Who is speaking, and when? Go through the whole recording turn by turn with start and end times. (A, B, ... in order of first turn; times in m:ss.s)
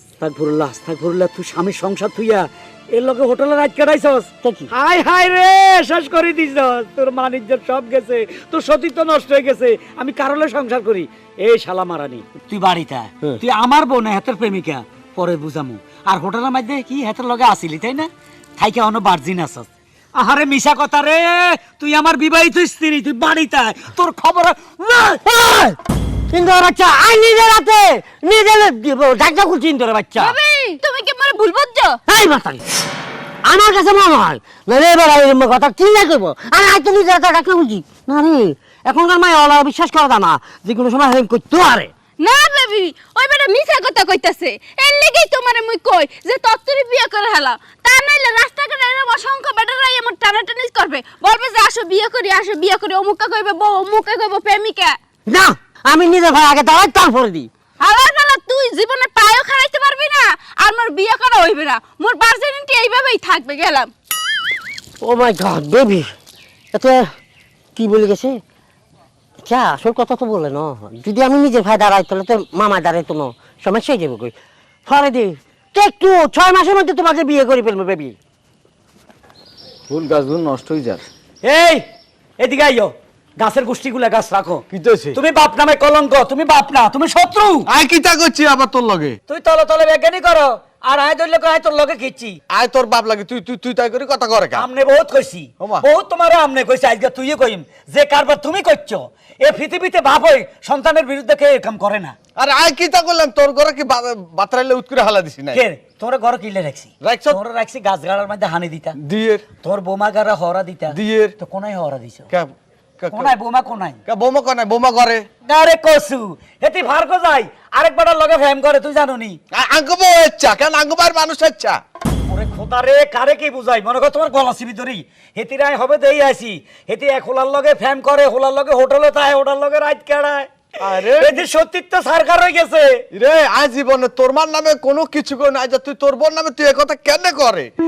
0:00.2-0:25.0 A
0:04.4-0:04.7 B
0:25.1-0:25.8 B
0:26.3-0:30.4 B
0:30.2-0:32.0 C
0:32.1-0:32.6 B
0:33.4-0:41.9 B
0:42.2-0:55.0 C
0:55.3-0:57.5 B
0:57.8-1:03.9 C
1:05.0-1:06.1 B
1:06.7-1:07.1 B
1:07.8-1:08.4 B
1:09.4-1:18.2 B
1:19.9-1:21.0 D
1:21.4-1:21.8 A
1:22.4-1:27.7 A
1:24.7-1:25.2 D
1:27.7-1:29.2 D
1:29.3-1:32.4 A
1:32.5-1:34.7 D
1:34.6-1:42.2 A
1:35.6-1:35.8 D
1:42.4-1:45.6 D
1:45.5-1:49.0 A
1:47.0-1:47.4 D
1:49.0-1:49.4 D
1:49.6-1:52.3 A
1:50.9-1:51.3 D
1:52.3-1:53.3 D
1:53.1-1:54.0 A
1:54.1-1:55.3 D
1:55.4-1:59.4 A
1:59.5-2:01.8 D
2:02.3-2:13.0 A
2:10.8-2:11.4 D
2:13.1-2:17.7 D